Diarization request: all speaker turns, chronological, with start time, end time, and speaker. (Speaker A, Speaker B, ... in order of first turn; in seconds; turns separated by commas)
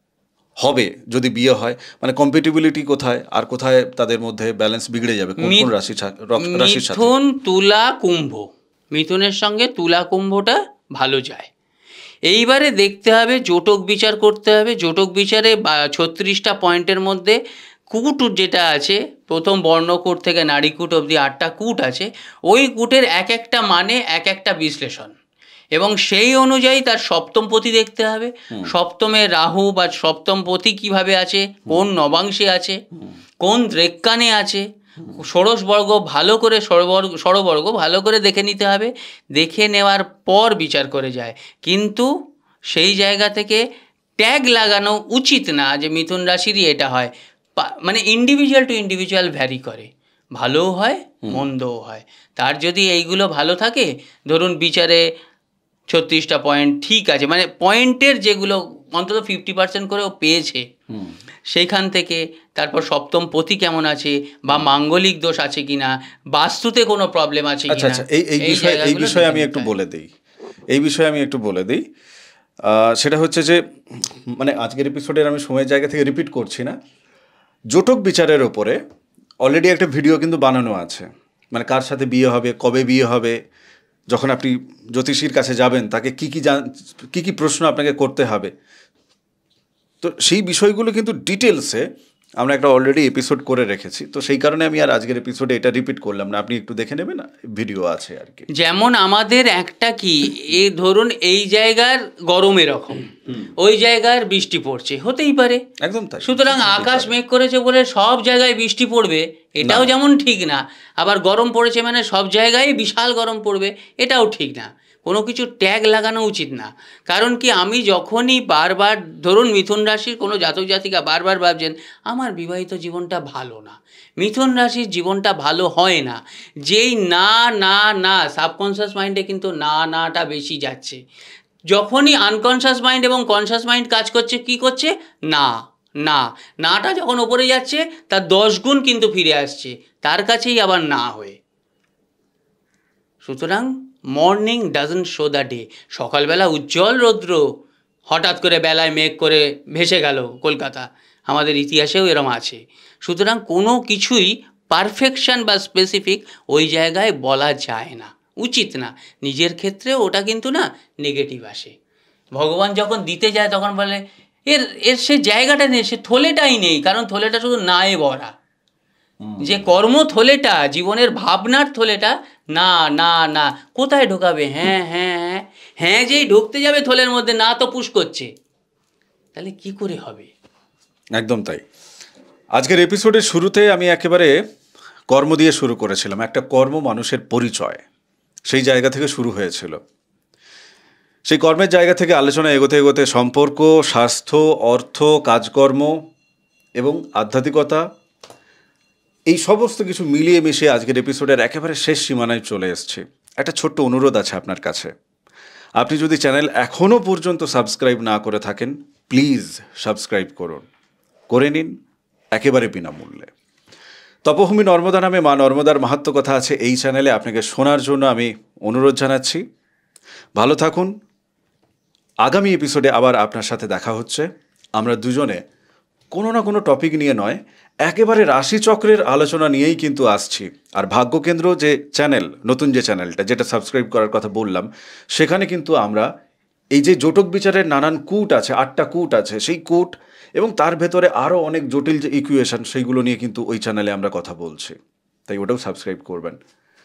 Speaker A: 0.6-7.1, Speaker B: 5.4-5.7, Speaker B: 6.5-11.5, Speaker B: 12.3-17.4, Speaker B: 17.9-25.1, Speaker B: 25.7-32.8, Speaker B: 33.4-34.7, Speaker B: 35.2-42.1, Speaker B: 42.7-43.6, Speaker B: 44.2-55.0, Speaker B: 55.9-60.6, Speaker B: 61.5-69.7, Speaker A: 67.7-70.1, Speaker A: 70.7-71.8, Speaker A: 72.7-76.8, Speaker A: 77.7-78.8, Speaker A: 79.4-83.4, Speaker A: 84.1-88.5, Speaker A: 90.0-91.8, Speaker A: 92.4-98.5, Speaker B: 98.5-105.6, Speaker A: 105.8-107.1, Speaker B: 106.2-131.0, Speaker A: 109.6-109.9, Speaker B: 131.7-135.5, Speaker B: 136.0-141.4, Speaker B: 143.2-147.4, Speaker B: 148.1-161.7, Speaker B: 162.4-168.3, Speaker A: 169.2-169.6, Speaker B: 169.4-178.3, Speaker B: 179.4-180.3, Speaker A: 181.2-181.6, Speaker A: 182.6-184.3, Speaker A: 185.1-187.8, Speaker A: 188.5-189.8, Speaker A: 191.3-195.9, Speaker A: 196.8-197.8, Speaker A: 199.3-204.9, Speaker A: 205.8-210.7, Speaker A: 211.3-211.7, Speaker A: 212.3-213.3, Speaker A: 214.2-219.4, Speaker A: 220.4-220.9, Speaker A: 222.2-224.3, Speaker A: 224.8-225.4, Speaker A: 226.1-236.1, Speaker A: 236.8-244.8, Speaker A: 245.3-246.4